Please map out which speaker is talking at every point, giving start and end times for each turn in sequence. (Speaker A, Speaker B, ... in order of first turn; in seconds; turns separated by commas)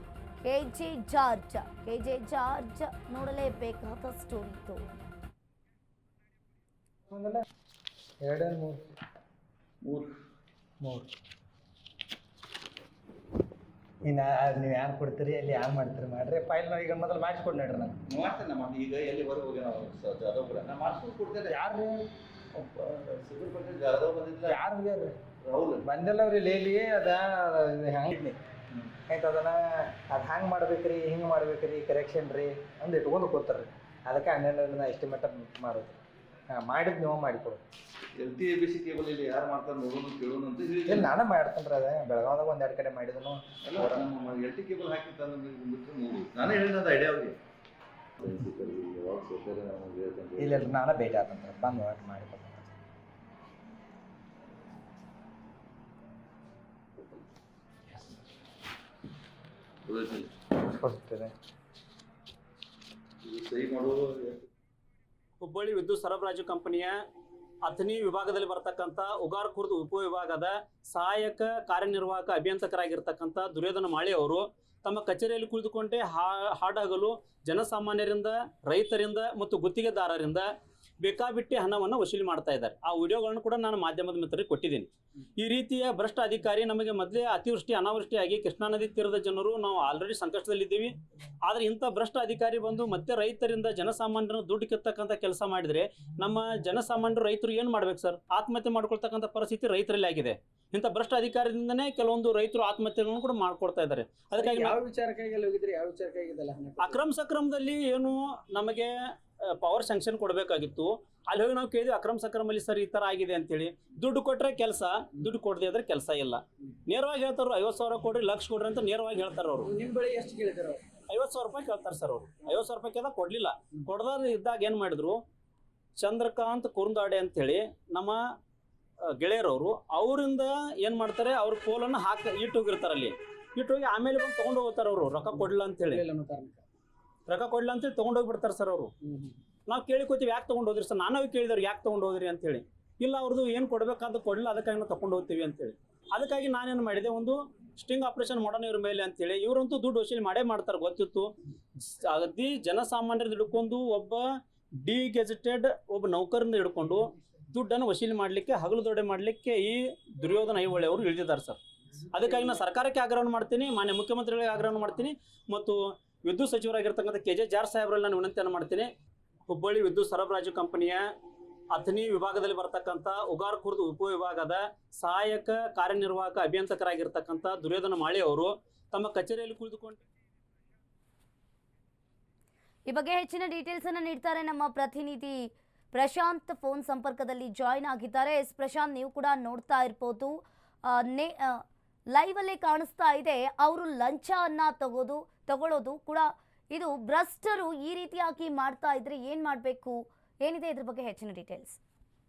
Speaker A: 0.4-4.9, Speaker B: 7.1-7.4, Speaker B: 8.2-8.8, Speaker C: 9.8-10.1, Speaker B: 10.8-11.1, Speaker B: 14.0-18.0, Speaker C: 18.1-21.5, Speaker B: 21.5-22.0, Speaker C: 22.5-24.6, Speaker B: 24.5-25.1, Speaker C: 25.4-25.9, Speaker B: 25.8-28.4, Speaker B: 29.1-36.0, Speaker B: 36.5-37.6, Speaker C: 38.1-41.1, Speaker B: 40.9-44.1, Speaker C: 43.6-47.4, Speaker C: 48.2-50.7, Speaker B: 50.4-52.7, Speaker C: 59.9-60.3, Speaker B: 60.7-61.3, Speaker C: 63.2-64.5, Speaker D: 65.4-67.0, Speaker D: 67.6-80.5, Speaker D: 81.0-104.8, Speaker E: 104.3-107.0, Speaker D: 106.8-119.7, Speaker E: 119.6-120.8, Speaker D: 121.1-125.2, Speaker D: 126.0-128.2, Speaker D: 129.2-136.0, Speaker E: 135.8-136.6, Speaker D: 137.3-138.9, Speaker E: 139.0-139.3, Speaker D: 139.7-154.2, Speaker D: 154.8-161.6, Speaker D: 162.1-168.9, Speaker D: 169.5-171.1, Speaker D: 171.7-180.0, Speaker A: 182.9-201.8